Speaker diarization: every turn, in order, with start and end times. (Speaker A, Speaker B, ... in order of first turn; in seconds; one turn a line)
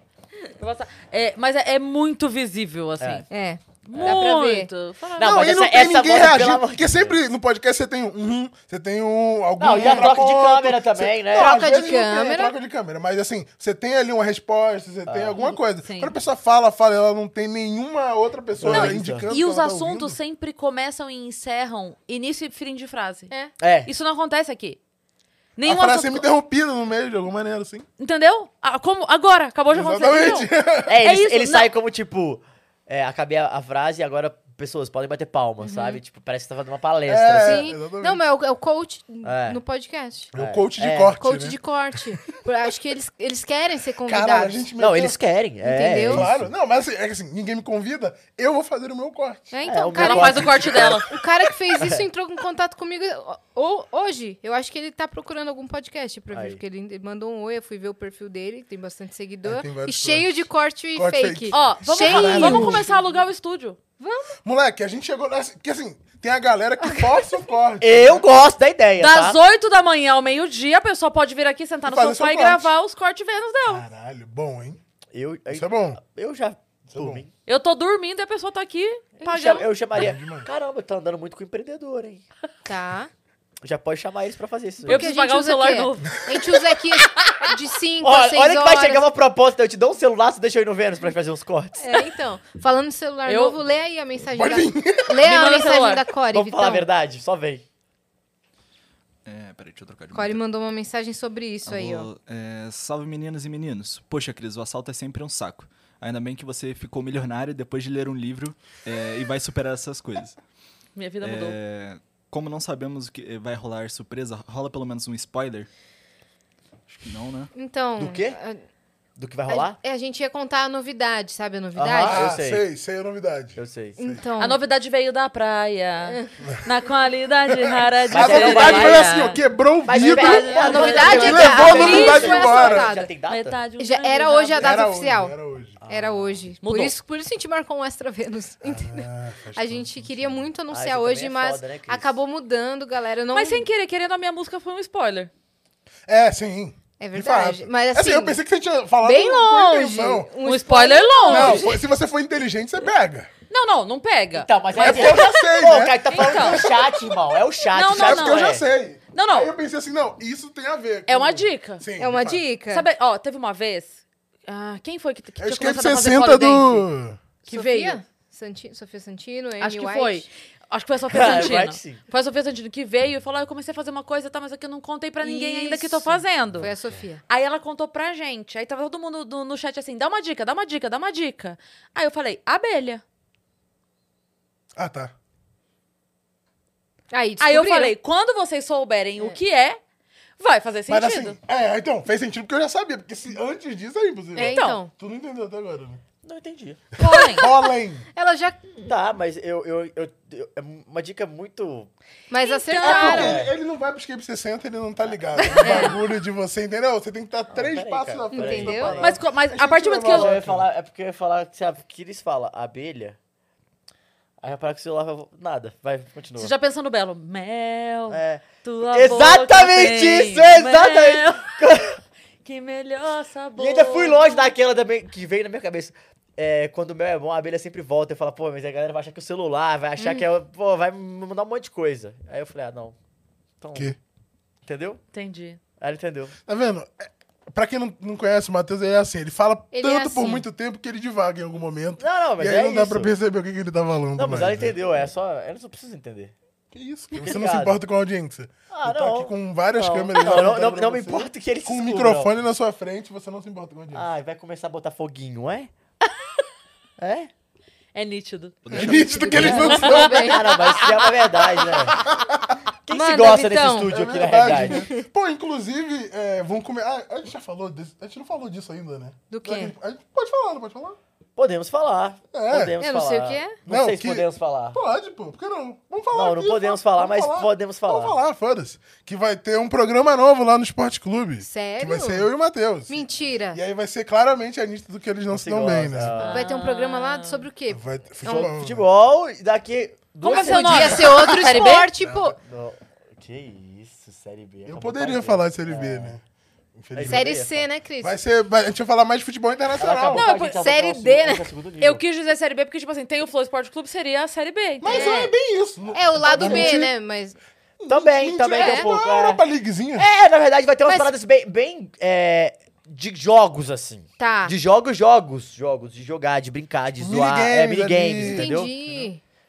Speaker A: 0.6-3.2
Speaker B: 3.0-3.2
Speaker C: 3.3-4.7
Speaker A: 3.9-5.4
Speaker B: 5.2-7.2
Speaker D: 5.2-20.2
Speaker B: 9.6-11.8
Speaker C: 11.3-12.5
Speaker B: 15.1-15.5
Speaker A: 15.8-16.1
Speaker B: 18.6-19.3
Speaker A: 18.6-23.3
Speaker B: 23.6-23.9
Speaker A: 23.9-24.8
Speaker A: 25.6-26.2
Speaker D: 25.6-27.9
Speaker A: 28.0-30.5
Speaker D: 29.7-31.0
Speaker B: 30.9-37.7
Speaker A: 31.0-31.7
Speaker C: 35.6-36.0
Speaker D: 37.1-38.2
Speaker C: 37.4-40.3
Speaker B: 39.2-39.6
Speaker B: 40.3-41.1
Speaker D: 40.3-41.6
Speaker C: 41.2-44.6
Speaker D: 44.1-45.2
Speaker B: 44.8-46.5
Speaker C: 45.6-46.2
Speaker D: 46.0-49.5
Speaker C: 49.5-62.9
Speaker B: 49.6-51.1
Speaker A: 49.9-51.1
Speaker B: 51.8-52.0
Speaker B: 56.3-56.6
Speaker D: 59.4-63.0
Speaker A: 61.5-63.8
Speaker C: 64.0-64.4
Speaker D: 64.4-68.2
Speaker C: 66.8-67.2
Speaker B: 67.8-69.4
Speaker A: 69.0-73.8
Speaker D: 71.8-72.7
Speaker D: 73.7-74.8
Speaker B: 75.1-77.3
Speaker D: 75.5-76.0
Speaker D: 76.9-77.2
Speaker A: 77.5-79.7
Speaker B: 79.2-82.2
Speaker D: 79.9-80.5
Speaker C: 82.7-83.1
Speaker B: 83.6-85.0
Speaker A: 84.8-86.3
Speaker C: 84.8-89.0
Speaker B: 88.0-91.8
Speaker C: 91.8-96.9
Speaker A: 93.2-93.6
Speaker D: 94.3-95.2
Speaker A: 95.2-96.0
Speaker B: 96.3-97.6
Speaker E: 99.2-100.4
Speaker C: 100.1-102.1
Speaker E: 101.7-110.4
Speaker A: 111.0-111.6
Speaker E: 111.2-115.7
Speaker E: 116.9-117.5
Speaker C: 117.5-118.6
Speaker B: 118.0-118.4
Speaker B: 119.2-119.8
Speaker C: 119.5-122.3
Speaker B: 121.7-122.6
Speaker D: 122.0-124.2
Speaker B: 123.5-124.0
Speaker C: 124.0-124.6
Speaker A: 124.4-129.4
Speaker D: 127.6-132.9
Speaker B: 128.1-129.1
Speaker B: 129.8-133.6
Speaker A: 129.9-132.4
Speaker C: 130.3-133.1
Speaker A: 133.3-134.8
Speaker C: 133.8-135.3
Speaker D: 134.6-135.8
Speaker B: 135.8-136.4
Speaker C: 135.9-143.7
Speaker A: 136.6-136.9
Speaker D: 138.6-140.4
Speaker B: 140.7-142.2
Speaker A: 143.3-145.3
Speaker D: 146.1-150.3
Speaker C: 147.0-148.4
Speaker C: 149.0-151.7
Speaker A: 150.4-151.8
Speaker D: 151.3-153.3
Speaker A: 153.5-155.5
Speaker B: 154.3-158.6
Speaker D: 154.8-157.0
Speaker A: 156.1-156.7
Speaker A: 157.7-158.6
Speaker D: 157.9-162.4
Speaker A: 159.1-159.5
Speaker A: 161.1-161.8
Speaker C: 162.0-162.8
Speaker A: 162.7-166.9
Speaker D: 165.4-167.2
Speaker A: 167.4-168.0
Speaker C: 167.5-170.2
Speaker A: 169.6-176.7
Speaker B: 171.1-172.0
Speaker C: 175.2-177.2
Speaker A: 177.3-183.0
Speaker D: 184.8-185.1
Speaker C: 187.1-187.9
Speaker A: 187.4-189.8
Speaker A: 190.4-191.4
Speaker D: 190.9-196.0
Speaker C: 194.3-194.9
Speaker A: 194.3-194.8
Speaker B: 196.2-196.8
Speaker A: 197.0-197.5
Speaker D: 197.0-198.0
Speaker C: 197.4-198.7
Speaker B: 198.8-201.9
Speaker C: 202.3-203.4
Speaker A: 202.4-203.3
Speaker D: 202.8-210.7
Speaker B: 202.8-203.5
Speaker A: 205.4-206.0
Speaker C: 205.6-205.9
Speaker B: 207.5-209.2
Speaker C: 208.3-209.0
Speaker A: 209.0-210.4
Speaker B: 210.1-213.2
Speaker B: 214.4-216.5
Speaker A: 216.4-221.9
Speaker B: 218.1-222.0
Speaker A: 222.4-224.5
Speaker B: 223.6-232.9
Speaker C: 230.0-230.2
Speaker B: 233.6-233.9
Speaker B: 234.6-235.0
Speaker A: 235.1-235.6
Speaker B: 235.8-236.4
Speaker D: 236.4-244.8
Speaker C: 239.7-240.4
Speaker B: 242.0-243.1
Speaker B: 244.2-246.3
Speaker D: 246.7-254.0
Speaker B: 247.1-247.8
Speaker B: 248.7-252.3
Speaker B: 253.9-255.7
Speaker B: 257.0-257.3
Speaker A: 257.9-261.6
Speaker D: 258.7-260.3
Speaker C: 258.7-260.4
Speaker B: 259.3-262.0
Speaker D: 261.9-262.4
Speaker B: 262.9-264.9
Speaker C: 262.9-265.1
Speaker D: 263.9-271.0
Speaker C: 269.3-269.7
Speaker B: 271.4-274.8
Speaker D: 272.3-272.7
Speaker C: 272.8-273.6
Speaker D: 273.7-286.1
Speaker B: 276.1-278.2
Speaker C: 281.4-282.3
Speaker C: 282.9-283.6
Speaker B: 285.3-286.5
Speaker A: 286.2-287.5
Speaker C: 286.2-288.5
Speaker D: 287.7-288.8
Speaker B: 288.2-291.3
Speaker A: 290.2-291.9
Speaker C: 290.2-292.4
Speaker D: 290.9-291.4
Speaker B: 292.1-296.2
Speaker D: 294.6-296.2
Speaker D: 296.8-297.4
Speaker B: 296.9-297.6
Speaker C: 297.0-298.1
Speaker D: 298.0-300.2
Speaker B: 299.8-302.0
Speaker A: 300.1-300.6
Speaker C: 300.3-301.5
Speaker A: 301.8-305.2
Speaker D: 304.8-306.9
Speaker C: 304.8-305.3
Speaker C: 305.9-307.4
Speaker B: 306.3-306.7
Speaker D: 307.8-310.1
Speaker B: 307.9-309.4
Speaker C: 308.5-308.9
Speaker B: 309.9-318.7
Speaker C: 310.9-311.1
Speaker C: 314.2-314.5
Speaker D: 317.0-319.0
Speaker C: 318.2-319.2